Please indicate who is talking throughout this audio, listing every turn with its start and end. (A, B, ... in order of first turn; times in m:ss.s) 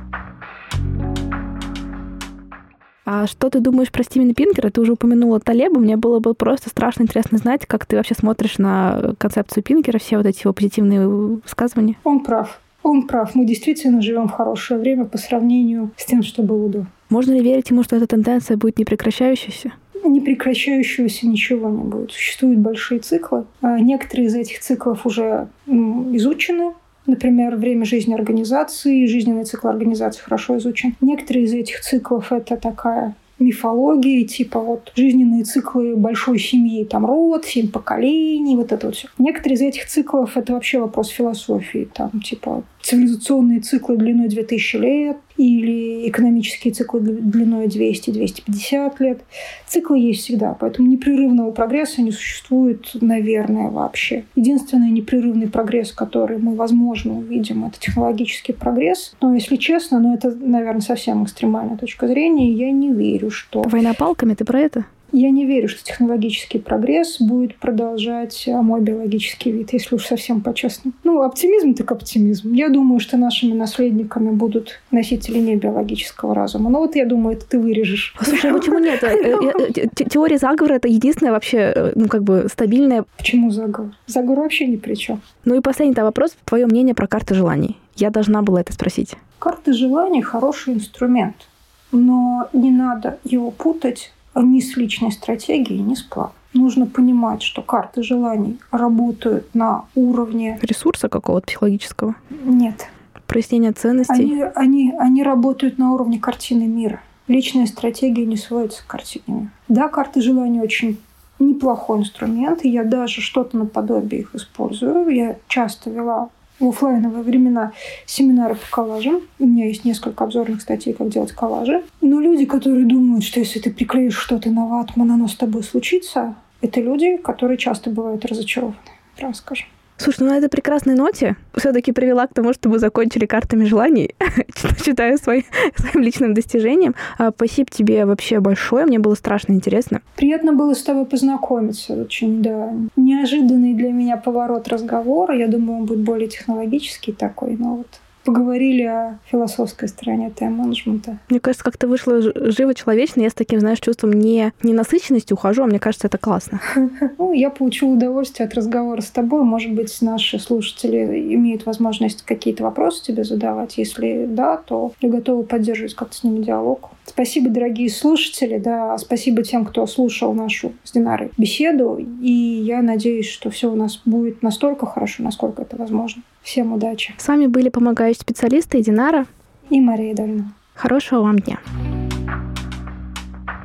0:03.0-0:12.0 A
0:12.0-0:16.9 B
0:17.1-0:19.7 A
0:20.0-1:03.8 B
1:03.6-1:04.9 A
1:05.1-1:19.7 B
1:18.2-1:23.0 A
1:23.2-1:25.2 B
1:25.4-1:29.2 A
1:29.4-1:40.6 B
1:40.6-1:42.2 A
1:42.3-1:42.9 B
1:43.3-1:44.3 A
1:44.1-2:09.7 B
2:10.0-2:20.0 A
2:20.2-2:31.2 B
2:31.3-2:36.6 A
2:37.0-2:57.2 B
2:57.2-2:59.3 A
2:59.7-3:00.6 B
3:00.8-3:01.6 A